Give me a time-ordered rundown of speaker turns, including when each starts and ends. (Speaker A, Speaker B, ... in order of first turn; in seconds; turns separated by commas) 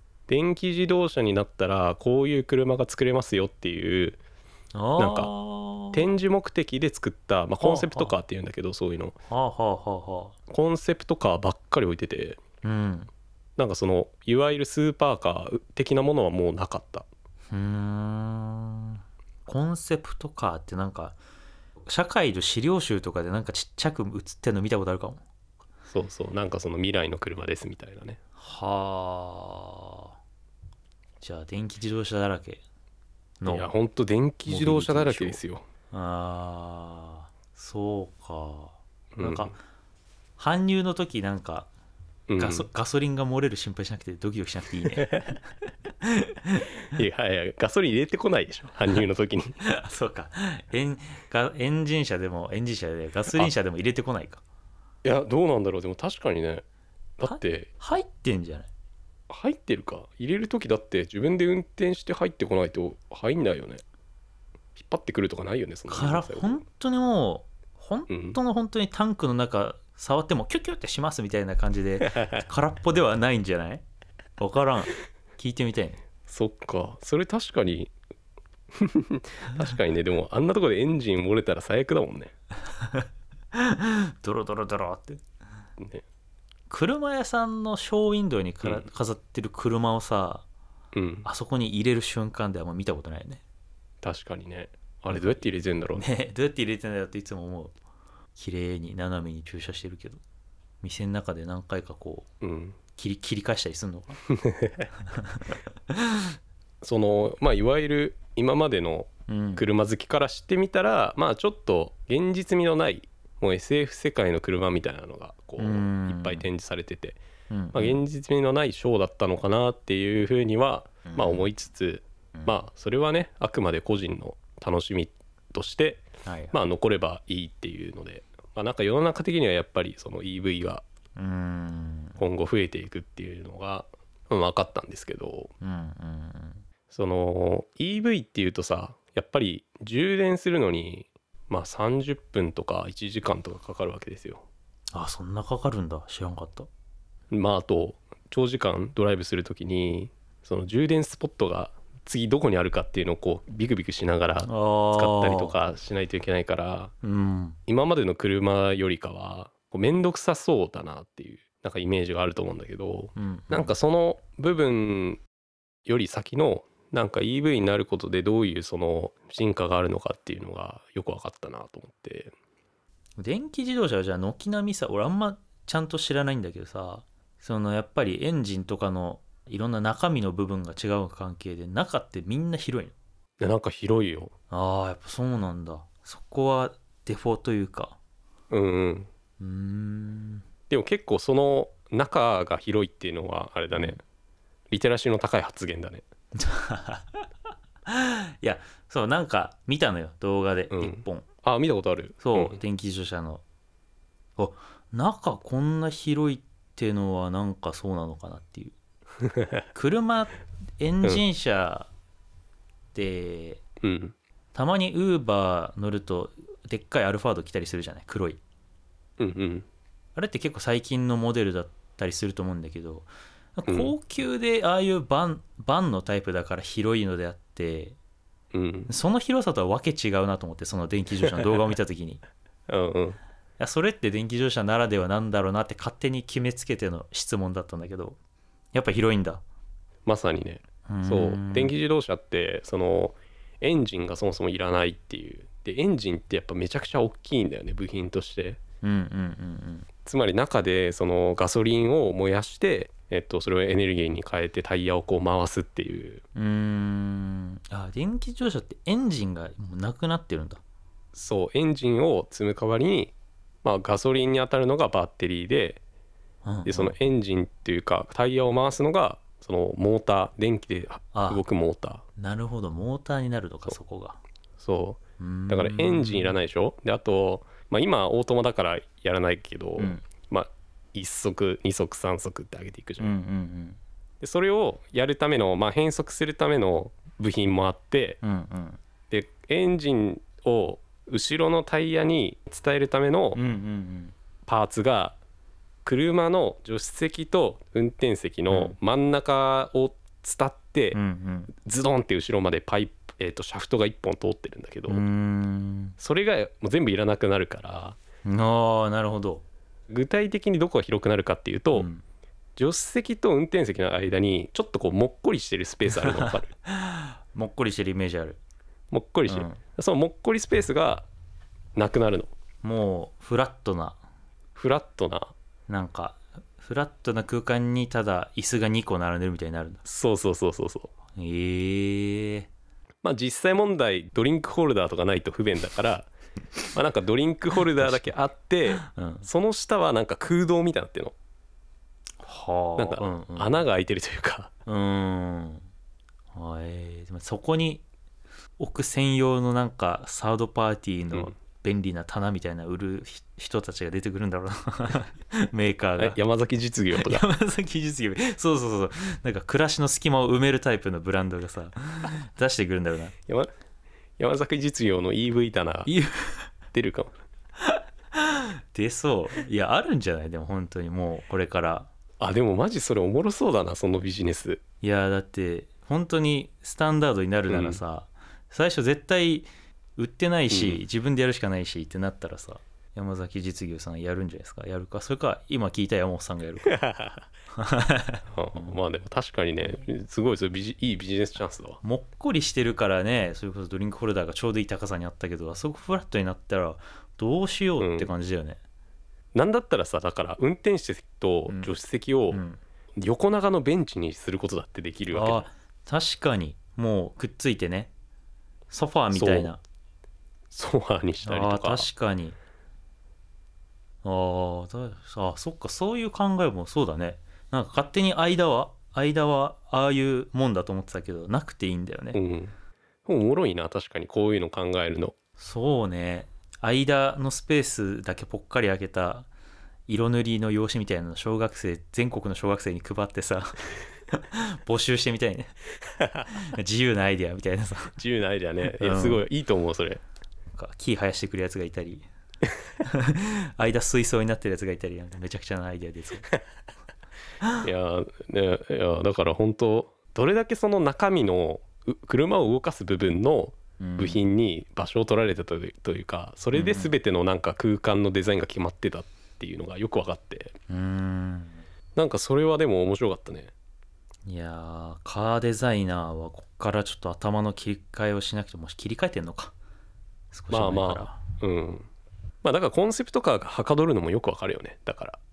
Speaker A: 0.3-4.2, Speaker B: 4.7-6.1, Speaker A: 5.0-5.3, Speaker A: 5.9-9.2, Speaker B: 7.6-8.2, Speaker B: 9.3-10.4, Speaker A: 10.5-12.4, Speaker B: 12.6-13.1, Speaker A: 13.6-17.1, Speaker B: 17.5-21.2, Speaker B: 21.9-25.2, Speaker A: 25.9-28.2, Speaker B: 28.4-30.1, Speaker B: 31.2-32.6, Speaker B: 33.4-33.7, Speaker A: 33.5-35.7, Speaker B: 34.5-35.4, Speaker B: 35.9-39.6, Speaker A: 39.2-39.5, Speaker B: 40.4-41.7, Speaker A: 42.3-42.7, Speaker B: 42.4-45.4, Speaker A: 45.1-45.3, Speaker B: 46.0-46.7, Speaker A: 46.9-49.6, Speaker B: 49.6-54.4, Speaker A: 55.0-56.6, Speaker A: 57.2-57.7, Speaker B: 57.2-58.7, Speaker A: 59.3-63.8, Speaker A: 64.8-66.6, Speaker B: 65.9-73.8, Speaker A: 68.1-68.4, Speaker B: 74.4-76.0, Speaker A: 76.3-77.9, Speaker A: 78.8-82.3, Speaker B: 82.8-85.2, Speaker B: 86.7-90.5, Speaker A: 90.9-91.3, Speaker B: 91.2-93.4, Speaker A: 94.0-96.0, Speaker B: 95.9-97.8, Speaker B: 98.4-100.2, Speaker B: 100.8-102.3, Speaker A: 102.4-102.8, Speaker B: 102.9-104.2, Speaker A: 104.4-104.9, Speaker B: 105.2-105.5, Speaker A: 106.8-117.2, Speaker B: 109.3-109.6, Speaker B: 115.6-116.5, Speaker B: 117.5-118.0, Speaker A: 117.7-130.8, Speaker B: 121.1-121.5, Speaker B: 126.2-126.5, Speaker B: 131.2-132.2, Speaker A: 132.2-135.5, Speaker B: 135.6-136.6, Speaker A: 136.9-144.4, Speaker B: 144.9-146.7, Speaker A: 147.3-156.9, Speaker B: 154.4-155.6, Speaker B: 157.0-157.6, Speaker A: 157.7-165.2, Speaker B: 163.2-163.7, Speaker A: 165.9-172.3, Speaker B: 173.2-182.9, Speaker A: 183.4-184.3, Speaker B: 184.5-188.0, Speaker A: 188.5-189.1, Speaker B: 189.4-190.4, Speaker A: 190.7-194.0, Speaker B: 193.7-194.0, Speaker A: 194.7-196.0, Speaker B: 196.3-197.2, Speaker B: 197.9-201.3, Speaker A: 200.7-202.6, Speaker B: 202.2-203.4, Speaker B: 204.4-208.7, Speaker B: 209.7-211.9, Speaker B: 212.9-213.6, Speaker A: 213.8-214.1, Speaker B: 214.6-218.4, Speaker A: 219.2-219.7, Speaker B: 220.2-228.0, Speaker A: 223.7-223.9, Speaker A: 228.5-228.9, Speaker B: 228.9-232.2, Speaker A: 232.7-233.2, Speaker B: 233.6-238.2, Speaker B: 238.7-239.4, Speaker A: 240.1-248.6, Speaker B: 240.9-241.7, Speaker B: 248.8-249.9, Speaker A: 250.1-256.2, Speaker B: 256.4-260.6, Speaker A: 261.1-263.1, Speaker A: 263.6-265.8, Speaker B: 266.4-266.9, Speaker A: 266.6-272.0, Speaker B: 271.1-271.4, Speaker B: 272.2-274.2, Speaker A: 274.6-283.1, Speaker B: 275.2-276.4, Speaker B: 279.8-280.1, Speaker B: 283.0-283.8, Speaker A: 284.2-288.2, Speaker B: 288.2-288.8, Speaker A: 289.1-293.4, Speaker B: 293.4-294.1, Speaker A: 294.5-295.2, Speaker A: 295.9-301.0, Speaker B: 298.5-298.8, Speaker B: 300.9-301.5, Speaker A: 301.6-305.0, Speaker B: 304.9-306.0, Speaker A: 306.0-308.0, Speaker B: 308.2-309.4, Speaker A: 309.9-311.9, Speaker B: 311.7-312.0, Speaker A: 312.6-316.5, Speaker B: 315.9-318.4, Speaker A: 318.9-321.1, Speaker B: 319.3-319.6, Speaker A: 321.8-322.3, Speaker B: 322.6-324.0, Speaker A: 324.6-325.3, Speaker B: 325.7-329.8, Speaker A: 329.8-330.9, Speaker B: 331.2-332.5, Speaker A: 333.0-336.1, Speaker A: 336.7-341.1, Speaker B: 337.8-338.1, Speaker B: 338.8-339.3, Speaker B: 342.2-343.6, Speaker A: 342.8-344.5, Speaker B: 344.7-345.7, Speaker B: 346.3-347.8, Speaker B: 348.6-356.2, Speaker A: 356.0-357.2, Speaker B: 356.9-363.1, Speaker A: 364.2-365.9, Speaker B: 365.9-366.5, Speaker A: 366.7-367.1, Speaker B: 367.6-371.9, Speaker A: 372.2-374.6, Speaker B: 374.8-386.7, Speaker A: 377.5-377.8, Speaker A: 380.5-380.8, Speaker A: 386.7-387.2, Speaker B: 387.6-388.8, Speaker A: 388.3-391.8, Speaker B: 391.8-398.6, Speaker A: 397.8-398.1, Speaker A: 399.3-402.4, Speaker B: 401.5-401.8, Speaker B: 402.3-402.6, Speaker A: 403.0-405.5, Speaker B: 405.1-407.9, Speaker B: 408.7-409.6, Speaker A: 409.1-409.5, Speaker A: 410.5-411.9, Speaker B: 411.2-412.4, Speaker B: 414.0-422.2, Speaker A: 422.1-425.1, Speaker B: 425.4-429.3, Speaker B: 429.9-435.5, Speaker A: 436.0-436.3, Speaker B: 436.3-438.0, Speaker A: 438.0-440.0, Speaker B: 438.8-439.3, Speaker B: 440.5-442.1, Speaker B: 442.8-446.3, Speaker A: 447.6-460.5, Speaker B: 453.8-454.2, Speaker B: 456.5-456.9, Speaker B: 460.7-461.6, Speaker A: 461.9-463.5, Speaker B: 464.3-469.6, Speaker B: 470.3-471.2, Speaker A: 470.5-471.9, Speaker A: 472.4-475.2